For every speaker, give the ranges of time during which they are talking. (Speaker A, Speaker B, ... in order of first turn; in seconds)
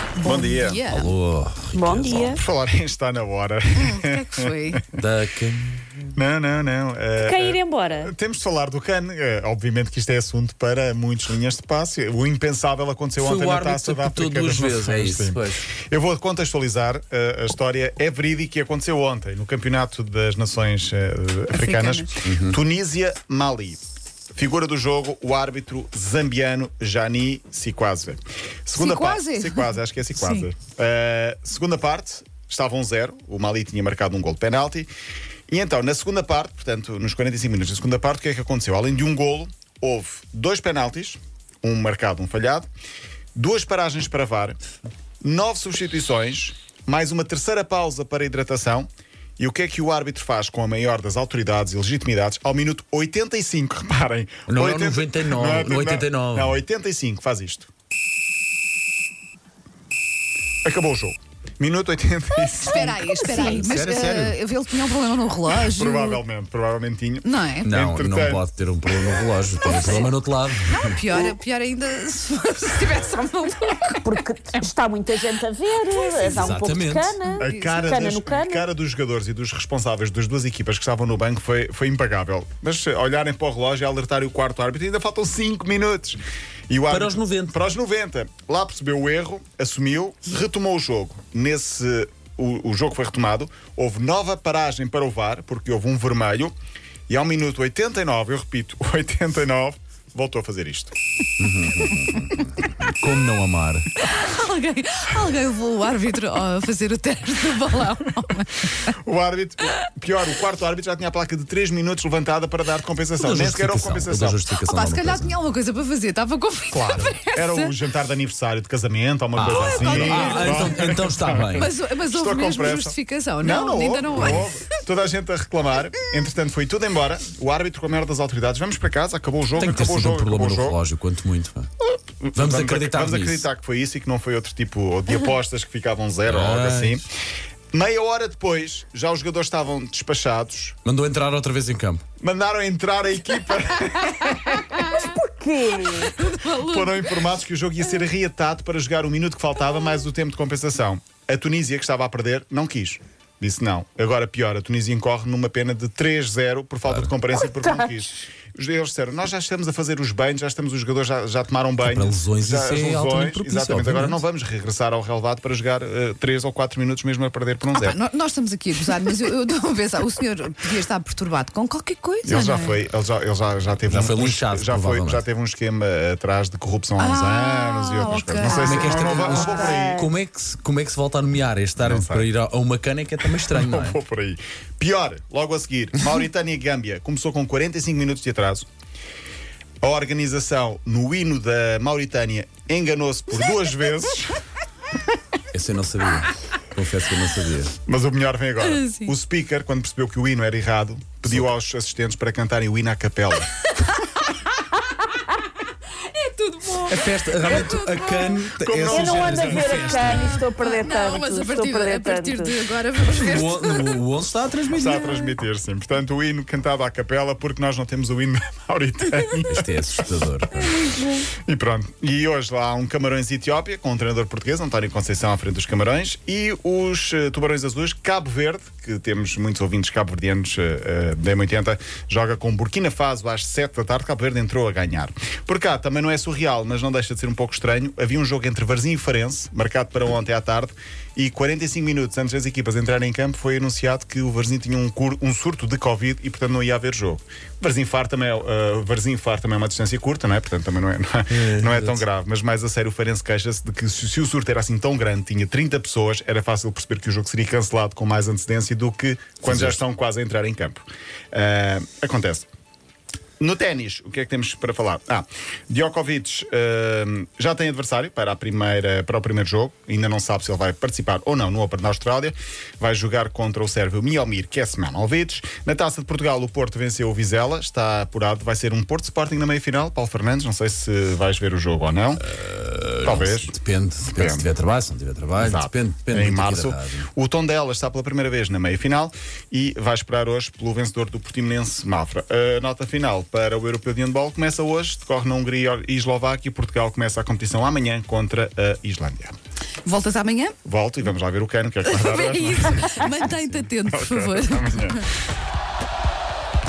Speaker A: 0.1-1.1, 3.8-4.8, 21.5-22.1, 28.7-30.5, 62.4-66.2, 67.2-67.7, 69.6-70.1, 70.7-74.2, 75.8-76.7, 77.3-77.8, 103.9-108.9, 114.7-117.7, 119.5-124.7, 144.2-145.1, 145.6-147.4, 167.7-172.8, 177.0-179.5, 198.6-199.1, 203.9-204.3, 206.1-208.5, 209.7-214.1, 299.8-300.5, 301.8-305.0
Speaker B: 0.2-0.8, 2.3-4.8, 6.2-23.8, 24.3-34.9, 35.5-42.7, 43.4-44.6, 45.2-48.9, 49.4-57.7, 60.6-63.6, 65.6-68.4, 77.4-96.5, 97.1-100.9, 108.9-114.4, 116.7-130.8, 131.8-137.1, 137.7-140.8, 142.2-144.9, 146.6-168.0, 172.2-180.1, 181.8-182.3, 183.5-188.7, 189.8-194.4, 197.8-203.5, 208.6-209.8, 214.7-219.7, 220.8-262.5, 263.4-282.2, 283.0-283.6, 284.1-284.5, 285.4-299.3, 300.6-305.0
Speaker C: 0.9-2.4, 4.9-6.0, 13.2-15.7, 22.2-22.6, 54.5-56.6, 63.5-64.4, 67.6-71.0, 76.2-77.2, 86.9-87.6, 101.4-103.9, 113.2-115.4, 119.3-121.7, 129.6-131.7, 132.3-133.5, 136.2-137.0, 140.8-142.0, 156.9-157.1, 161.8-164.2, 173.9-175.3, 178.5-184.0, 195.5-197.8, 206.8-210.4, 213.1-215.3, 219.5-220.9, 251.3-252.1, 259.4-259.8, 282.2-287.1
Speaker D: 1.7-2.4, 7.2-8.1, 73.8-78.7, 144.9-146.1, 178.7-180.1, 208.9-212.6